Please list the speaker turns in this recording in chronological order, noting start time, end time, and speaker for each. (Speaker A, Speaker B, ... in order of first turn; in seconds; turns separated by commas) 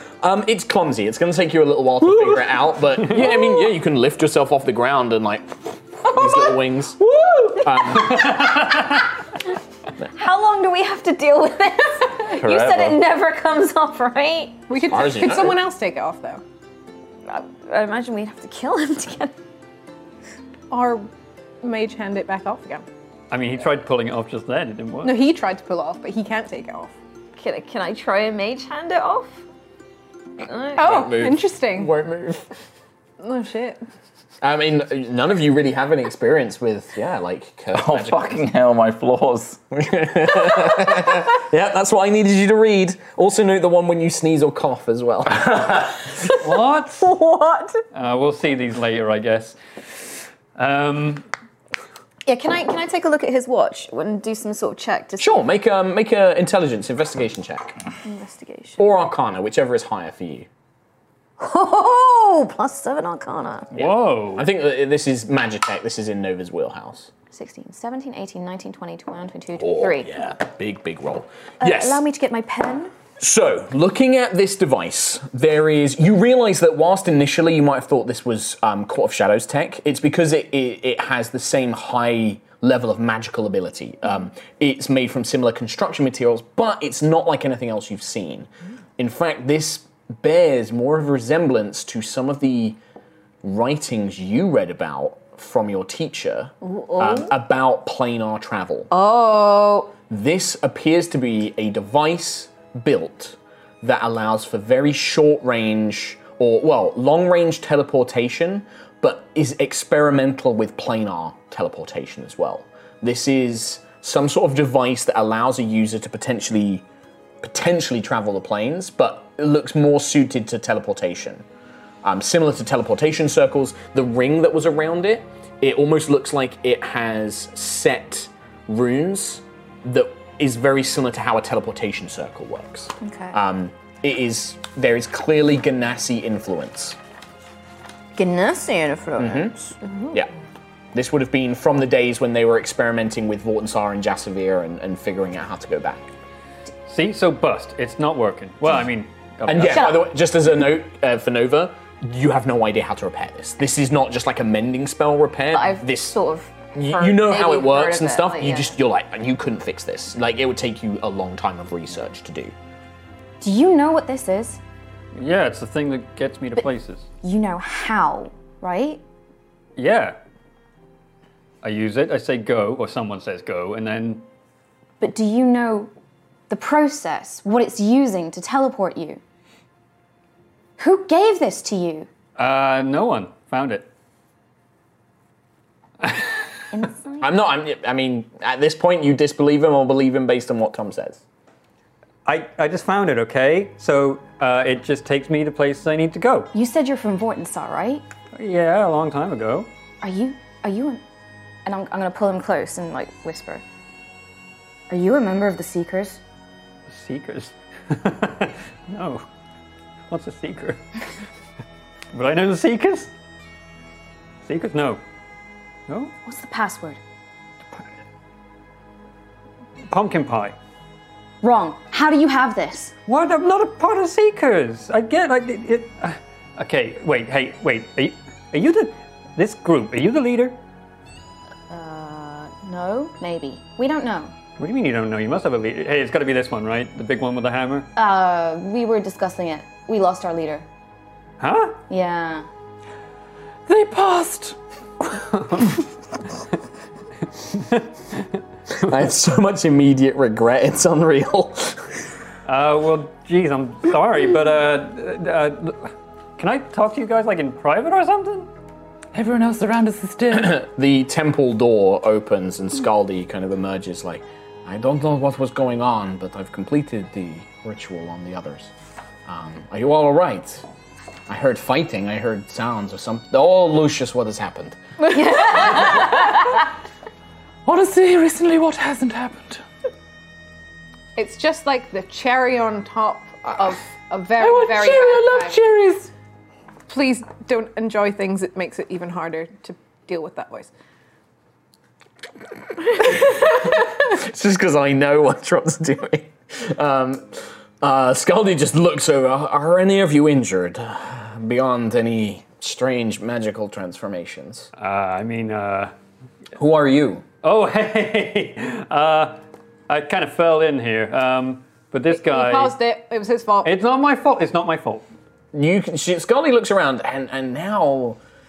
Speaker A: 0.2-7.0, Speaker B: 2.0-2.4, Speaker B: 7.0-7.9, Speaker A: 7.5-8.6, Speaker C: 8.0-8.8, Speaker D: 10.1-14.6, Speaker E: 12.3-13.0, Speaker F: 14.7-16.4, Speaker A: 14.8-15.6, Speaker D: 17.3-19.3, Speaker F: 20.7-21.1, Speaker F: 21.6-22.8, Speaker C: 23.3-25.2, Speaker F: 25.0-26.9, Speaker D: 27.4-29.4, Speaker D: 30.4-31.1, Speaker F: 30.8-31.9, Speaker A: 30.8-32.5, Speaker F: 33.2-33.8, Speaker A: 34.4-38.3, Speaker E: 37.7-39.6, Speaker A: 39.7-46.0, Speaker C: 46.4-47.1, Speaker D: 47.0-47.8, Speaker C: 47.9-49.6, Speaker C: 50.5-51.2, Speaker D: 52.2-55.4, Speaker A: 55.2-57.7, Speaker D: 58.0-58.8, Speaker A: 58.8-60.5, Speaker D: 61.4-63.7, Speaker C: 63.7-64.5, Speaker A: 63.8-67.1, Speaker D: 67.3-70.1, Speaker A: 69.6-72.0, Speaker D: 71.6-72.9, Speaker A: 73.2-92.8, Speaker A: 93.4-98.9, Speaker D: 96.6-97.3, Speaker D: 98.9-99.9, Speaker A: 100.1-116.8, Speaker A: 117.4-121.4, Speaker A: 122.0-137.0, Speaker D: 133.0-133.4, Speaker D: 138.2-140.1, Speaker A: 139.2-139.6, Speaker A: 140.9-146.0, Speaker C: 146.8-149.9, Speaker A: 149.4-156.2, Speaker D: 149.6-150.0, Speaker D: 155.5-158.7, Speaker A: 156.7-162.5, Speaker D: 163.4-164.6, Speaker C: 165.1-167.1, Speaker D: 167.2-169.0, Speaker C: 169.8-170.2, Speaker C: 171.6-174.2, Speaker D: 175.0-175.9, Speaker D: 176.5-179.2, Speaker D: 180.8-182.1, Speaker C: 182.4-183.9, Speaker C: 186.0-186.3, Speaker D: 186.7-187.3, Speaker A: 187.2-191.2, Speaker C: 192.2-196.5, Speaker D: 196.5-198.0, Speaker C: 198.3-199.7, Speaker D: 200.0-201.0, Speaker D: 201.6-203.6, Speaker D: 204.9-206.2, Speaker C: 206.9-209.2, Speaker C: 210.1-210.8, Speaker C: 212.1-213.1, Speaker C: 214.4-215.0, Speaker C: 215.9-216.1, Speaker D: 216.2-217.0, Speaker C: 219.9-220.6, Speaker D: 221.4-222.9, Speaker C: 223.1-230.6, Speaker D: 231.7-234.3, Speaker C: 234.6-237.9, Speaker D: 237.9-240.6, Speaker C: 241.4-241.8, Speaker D: 241.9-242.5, Speaker B: 243.7-244.6, Speaker C: 245.2-245.8, Speaker C: 247.5-248.2, Speaker A: 248.7-252.0, Speaker C: 252.4-258.5, Speaker B: 259.1-260.6, Speaker A: 260.3-268.7, Speaker A: 269.2-270.6, Speaker A: 271.3-274.8, Speaker D: 275.1-276.5, Speaker A: 275.3-276.0, Speaker B: 277.6-279.6, Speaker F: 281.1-285.6, Speaker B: 284.4-286.1, Speaker F: 286.9-290.7, Speaker A: 293.2-304.7, Speaker C: 304.8-305.9, Speaker A: 306.6-307.2, Speaker C: 307.4-312.7, Speaker F: 312.1-313.7, Speaker C: 313.6-315.1, Speaker A: 315.5-318.2